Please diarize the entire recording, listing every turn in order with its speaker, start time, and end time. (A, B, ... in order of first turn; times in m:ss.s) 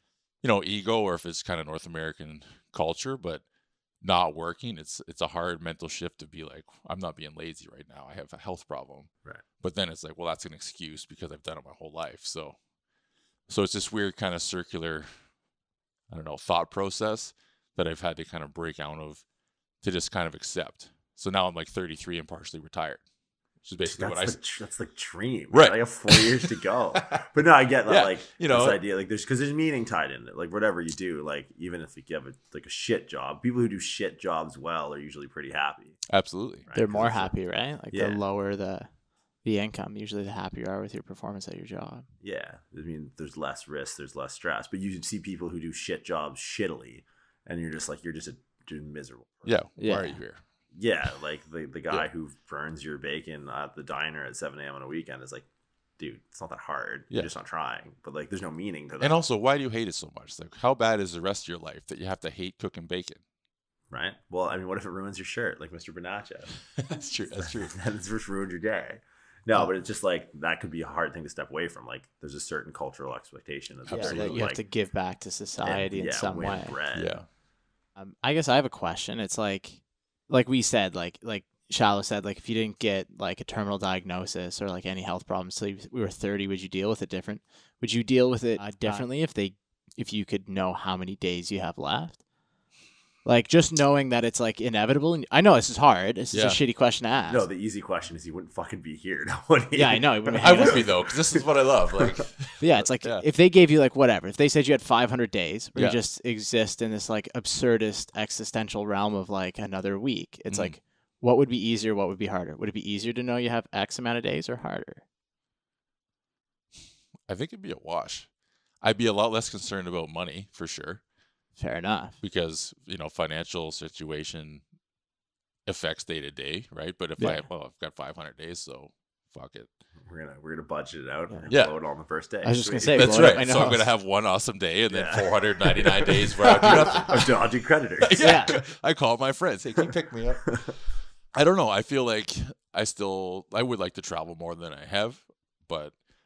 0:00.4-0:03.4 A
0:04.0-0:09.1 A
0:09.6-0:12.6 A
0:13.5-0:15.1 A
0:16.1-0:19.2 A
0:19.8-0:23.0 A
0:23.6-0:24.4 A
0:23.9-0:36.0 B
0:25.5-0:27.2 A
0:27.9-0:28.8 A
0:36.1-0:36.7 A
0:36.7-0:37.3 B
0:36.7-0:38.9 C
0:37.9-0:38.2 B
0:39.4-0:42.0 C
0:42.2-0:49.6 B
0:49.5-0:50.4 A
0:49.8-0:50.2 C
0:50.7-0:55.5 B
0:56.0-0:59.2 B
0:59.0-1:03.2 A
1:03.9-1:06.5 B
1:06.8-1:07.8 A
1:07.7-1:14.6 B
1:13.9-1:14.5 A
1:13.9-1:16.8 C
1:15.6-1:17.2 B
1:16.9-1:17.3 A
1:18.0-1:32.2 C
1:28.7-1:29.1 B
1:33.2-1:37.4 C
1:36.3-1:36.6 A
1:37.3-1:41.4 B
1:39.8-1:40.8 C
1:40.4-1:43.2 A
1:42.6-1:55.0 C
1:50.5-1:50.8 A
1:57.3-1:58.3 A
1:58.8-2:01.0 A
2:01.6-2:02.2 C
2:02.2-2:04.6 A
2:05.7-2:09.7 A
2:07.2-2:07.5 C
2:10.1-2:13.4 B
2:12.4-2:13.9 C
2:12.9-2:17.3 A
2:14.9-2:18.2 B
2:16.5-2:17.0 C
2:18.0-2:20.6 A
2:18.2-2:18.6 C
2:21.3-2:25.9 A